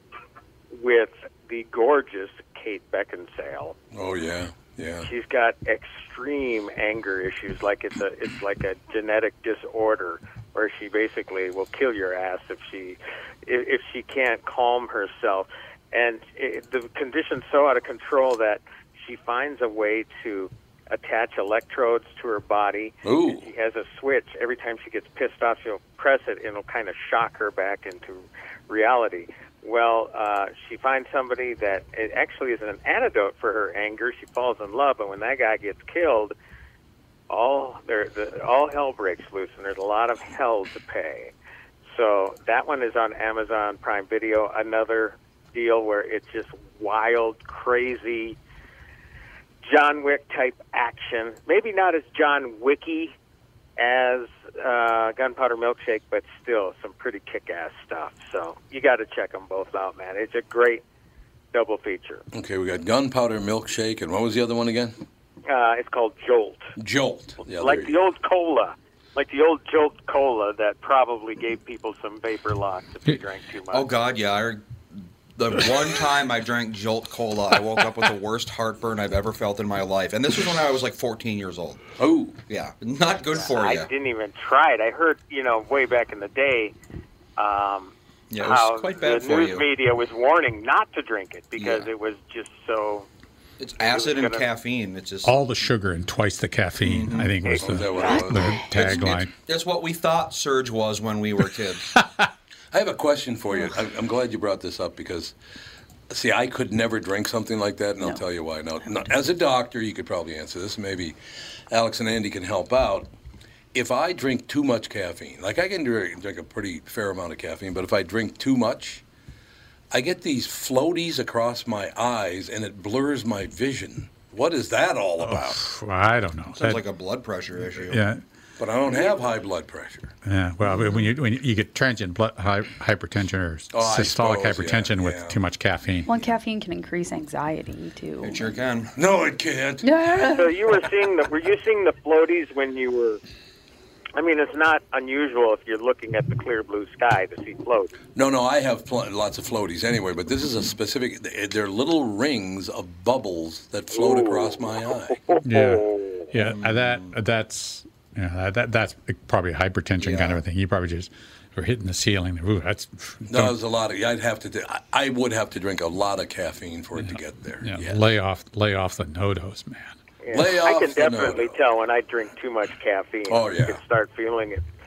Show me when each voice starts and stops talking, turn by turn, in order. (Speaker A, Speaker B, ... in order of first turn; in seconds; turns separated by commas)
Speaker A: 0.7-3.8, Speaker B: 3.9-5.1, Speaker A: 5.0-36.3, Speaker B: 23.0-23.4, Speaker A: 37.3-41.3, Speaker A: 41.9-48.4, Speaker A: 49.6-53.1, Speaker A: 53.8-60.8, Speaker A: 61.5-62.2, Speaker B: 62.3-64.9, Speaker A: 65.5-66.7, Speaker B: 66.8-68.0, Speaker A: 67.5-73.9, Speaker C: 73.7-74.6, Speaker C: 75.3-81.8, Speaker B: 82.0-82.4, Speaker C: 82.5-83.9, Speaker A: 83.3-86.7, Speaker A: 87.4-93.1, Speaker C: 88.3-89.7, Speaker C: 91.5-91.9, Speaker C: 93.6-95.4, Speaker A: 93.8-94.5, Speaker D: 95.2-99.3, Speaker C: 96.8-97.6, Speaker B: 97.6-98.6, Speaker E: 98.0-98.7, Speaker C: 98.7-101.8, Speaker B: 102.7-105.3, Speaker B: 106.1-111.1, Speaker B: 111.7-113.1, Speaker B: 113.7-119.0, Speaker B: 119.9-125.6, Speaker D: 125.2-126.8, Speaker C: 126.5-128.0, Speaker D: 127.7-128.2, Speaker B: 128.6-130.1, Speaker D: 130.2-136.1, Speaker B: 133.7-135.4, Speaker E: 136.1-138.6, Speaker C: 138.2-138.9, Speaker B: 138.9-139.9, Speaker E: 139.8-140.5, Speaker A: 140.3-143.2, Speaker A: 144.2-147.9, Speaker B: 148.1-155.2, Speaker A: 153.9-156.3, Speaker D: 155.4-163.5, Speaker C: 156.4-157.2, Speaker C: 160.0-160.4, Speaker B: 163.3-168.0, Speaker D: 167.0-169.9, Speaker A: 170.2-174.6, Speaker B: 170.3-171.6, Speaker B: 173.3-173.8